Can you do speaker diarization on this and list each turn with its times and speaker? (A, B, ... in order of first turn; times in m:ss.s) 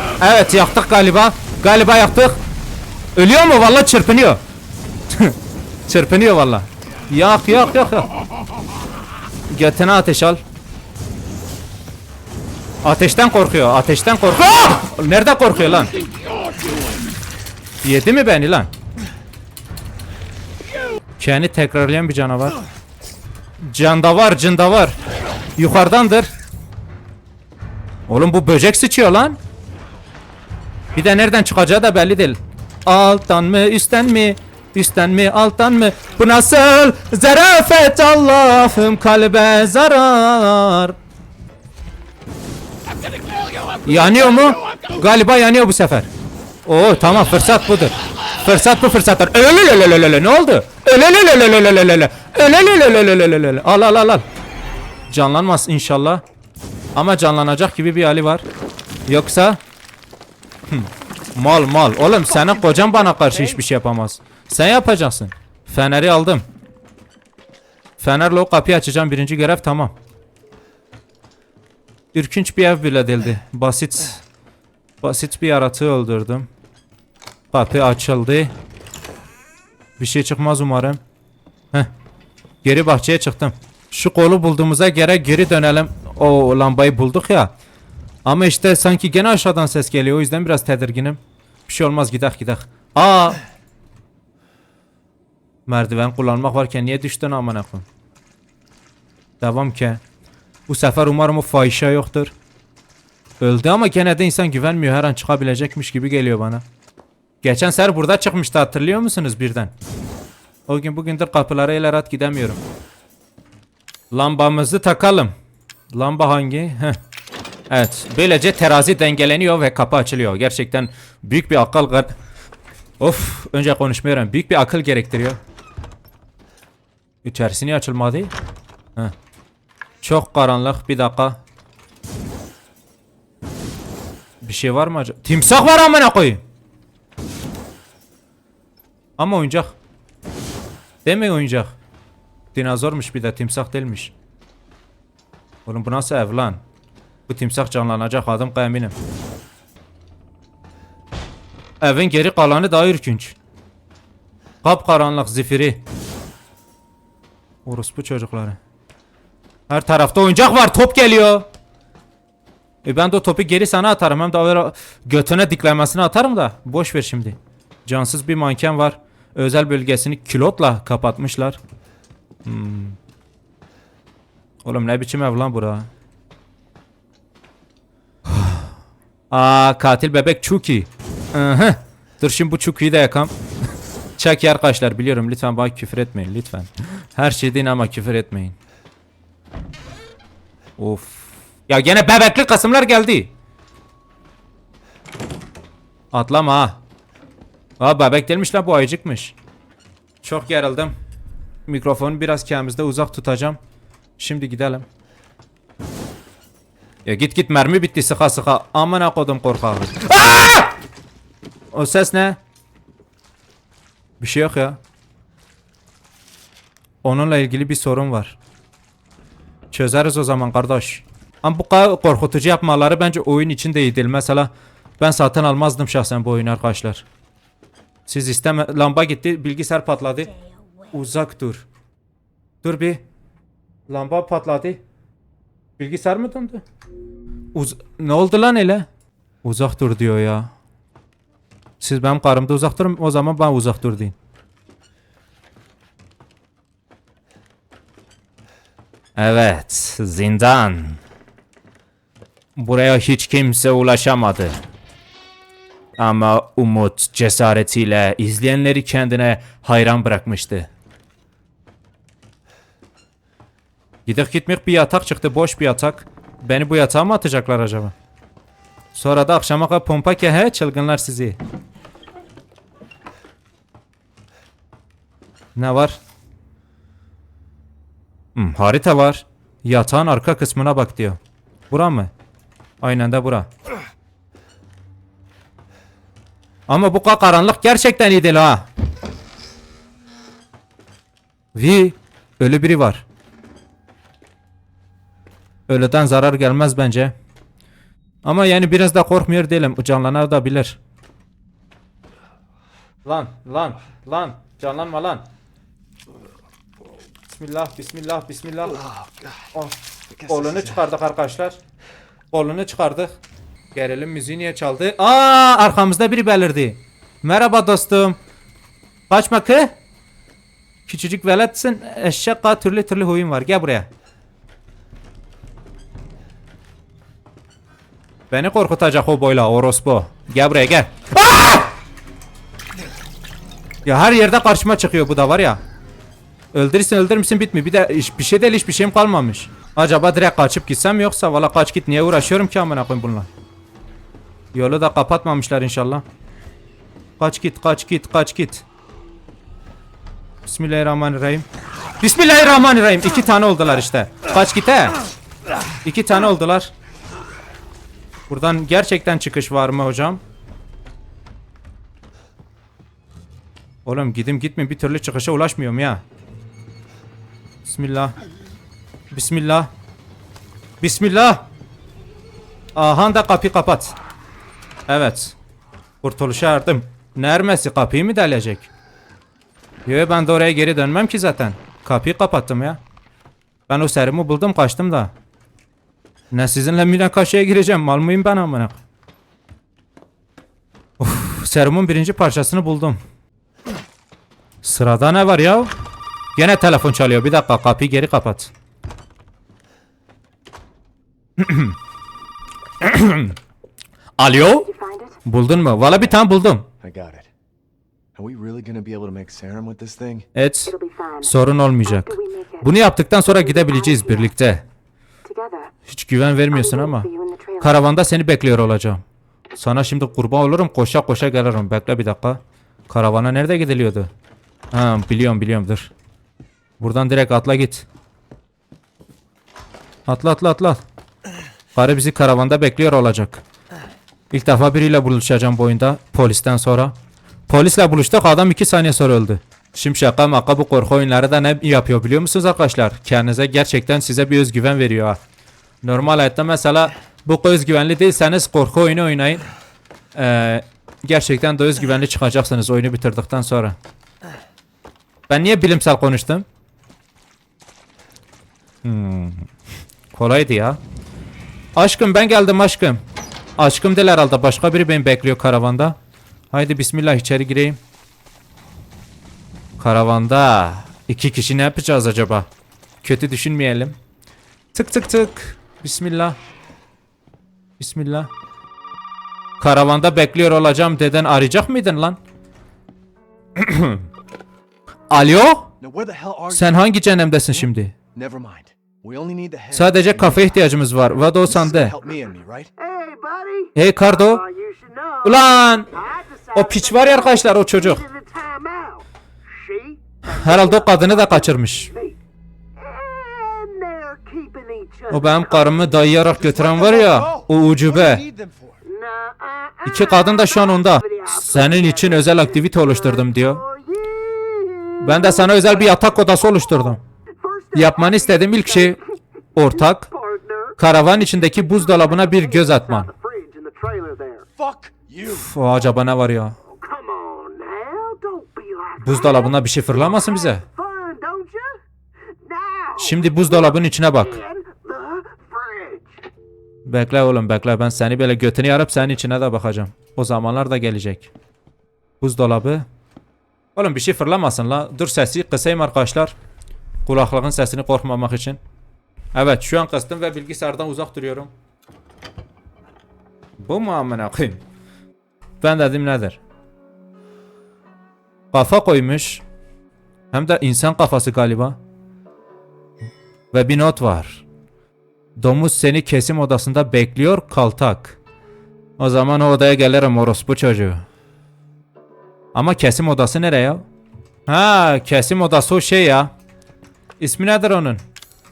0:00.2-0:02.4 A
0:03.2-0:04.4 A
0:05.1-0:05.4 A
0:05.9-0:08.1 A
0:09.5-0:10.4 A
0:12.8-0:16.0 A
0:17.8-0:18.7 A
0:21.2-0:22.6 A
0:23.6-0:25.0 A
0:25.6-0:26.3 A
0:28.1-0:29.4 A
0:31.0-0:41.0 A
0:43.8-0:46.1 A
0:46.7-0:54.2 A
0:55.1-0:56.2 A
0:57.0-0:58.4 A
0:59.1-0:59.6 A
1:00.7-1:06.4 A
1:08.0-1:10.0 A
1:12.1-1:14.2 A
1:15.0-1:16.5 A
1:17.5-1:18.5 A
1:20.0-1:21.0 A
1:22.6-1:27.5 A
1:28.2-1:33.4 A
1:35.7-1:37.9 A
1:39.4-1:40.0 A
1:40.7-1:42.3 A
1:43.4-1:46.6 A
1:47.4-1:49.7 A
1:50.7-1:52.6 A
1:54.1-1:55.3 A
1:55.9-1:57.0 A
1:57.7-2:02.1 A
2:03.0-2:05.4 A
2:07.2-2:08.3 A
2:10.0-2:11.4 A
2:14.4-2:16.4 A
2:19.2-2:19.8 A
2:21.0-2:21.7 A
2:22.5-2:24.1 A
2:25.7-2:26.6 A
2:27.3-2:28.9 A
2:31.8-2:33.4 A
2:34.6-2:35.8 A
2:37.6-2:38.6 A
2:39.7-2:41.5 A
2:42.8-2:51.6 A
2:52.4-2:53.0 A
2:54.6-2:55.9 A
2:58.3-2:58.7 A
2:59.3-3:03.3 A
3:04.2-3:08.6 A
3:10.8-3:13.3 A
3:16.1-3:16.8 A
3:17.8-3:19.3 A
3:20.2-3:21.0 A
3:21.7-3:23.6 A
3:24.2-3:24.9 A
3:27.1-3:30.7 A
3:31.7-3:32.4 A
3:34.2-3:34.8 A
3:37.0-3:38.4 A
3:39.7-3:47.0 A
3:48.1-3:50.3 A
3:50.9-3:51.7 A
3:52.6-3:53.0 A
3:53.9-3:54.8 A
3:55.8-3:56.6 A
3:57.5-3:58.9 A
3:59.4-4:00.5 A
4:01.8-4:04.2 A
4:09.2-4:11.0 A
4:12.6-4:14.6 A
4:16.0-4:20.7 A
4:24.1-4:27.9 A
4:29.0-4:31.4 A
4:35.6-4:36.0 A
4:38.4-4:41.2 A
4:41.7-4:42.1 A
4:42.8-4:43.5 A
4:46.7-4:48.7 A
4:51.6-4:53.0 A
4:55.7-4:57.1 A
4:58.2-5:00.8 A
5:03.0-5:05.2 A
5:07.3-5:08.8 A
5:08.8-5:09.4 B
5:09.5-5:11.6 A
5:10.2-5:10.8 B
5:12.3-5:13.1 A
5:13.8-5:18.2 A
5:19.1-5:19.7 A
5:20.9-5:23.9 A
5:28.3-5:31.7 A
5:33.8-5:35.6 A
5:36.5-5:43.3 A
5:44.5-5:46.0 A
5:47.2-5:48.6 A
5:50.5-5:51.5 A
5:52.0-5:55.0 A
5:55.8-5:56.7 A
5:58.3-6:00.2 A
6:03.8-6:06.0 A
6:07.6-6:08.2 A
6:09.1-6:09.7 A
6:10.8-6:11.4 A
6:12.8-6:13.9 A
6:14.9-6:15.4 A
6:16.0-6:18.7 A
6:19.9-6:22.8 A
6:23.7-6:25.1 A
6:26.3-6:28.8 A
6:31.0-6:33.0 A
6:34.6-6:35.7 A
6:36.4-6:38.5 A
6:41.4-6:41.8 A
6:42.8-6:43.4 A
6:44.2-6:44.7 A
6:44.5-6:45.2 C
6:45.2-6:46.7 A
6:46.8-6:47.3 B
6:48.2-6:50.3 B
6:50.4-6:54.6 A
6:50.7-6:52.7 C
6:53.2-6:54.3 C
6:55.2-6:55.7 C
6:55.9-6:59.0 A
6:56.5-6:57.8 C
6:59.6-7:04.1 A
7:04.7-7:05.9 A
7:06.8-7:07.8 A
7:10.1-7:10.8 A
7:11.8-7:13.4 A
7:14.3-7:16.9 A
7:17.5-7:25.2 A
7:25.8-7:29.4 A
7:30.2-7:33.8 A
7:35.3-7:36.4 A
7:38.8-7:39.5 A
7:40.1-7:40.8 A
7:41.8-7:43.0 A
7:43.6-7:46.0 A
7:46.5-7:47.8 A
7:49.8-7:52.5 A
7:53.0-7:54.0 A
7:54.7-7:56.4 A
7:57.8-7:58.3 A
7:59.6-8:02.2 A
8:03.6-8:04.1 A
8:05.1-8:05.7 A
8:05.8-8:06.8 B
8:06.5-8:08.0 A
8:08.1-8:10.5 B
8:09.7-8:11.9 A
8:11.4-8:12.7 B
8:12.8-8:22.2 C
8:13.8-8:14.4 A
8:15.2-8:15.9 A
8:16.5-8:18.0 A
8:20.3-8:21.9 A
8:22.8-8:26.0 C
8:25.1-8:28.2 A
8:26.2-8:28.8 B
8:28.9-8:36.0 C
8:29.9-8:33.6 A
8:35.0-8:37.0 A
8:36.6-8:39.0 C
8:37.7-8:39.0 A
8:39.6-8:40.1 A
8:39.7-8:44.5 C
8:40.8-8:43.1 A
8:44.6-8:45.5 B
8:45.3-8:46.6 A
8:46.7-8:51.8 C
8:49.0-8:50.6 A
8:52.3-8:56.1 C
8:53.0-8:54.4 A
8:56.9-9:01.3 A
9:02.2-9:02.8 A
9:03.8-9:06.4 A
9:07.1-9:08.6 A
9:09.3-9:11.5 A
9:13.6-9:14.6 A
9:15.6-9:16.4 A
9:18.5-9:19.4 A
9:20.3-9:21.8 A
9:23.5-9:24.4 A
9:25.4-9:28.2 A
9:29.0-9:31.0 A
9:32.5-9:33.8 A
9:34.5-9:36.3 A
9:37.2-9:38.0 A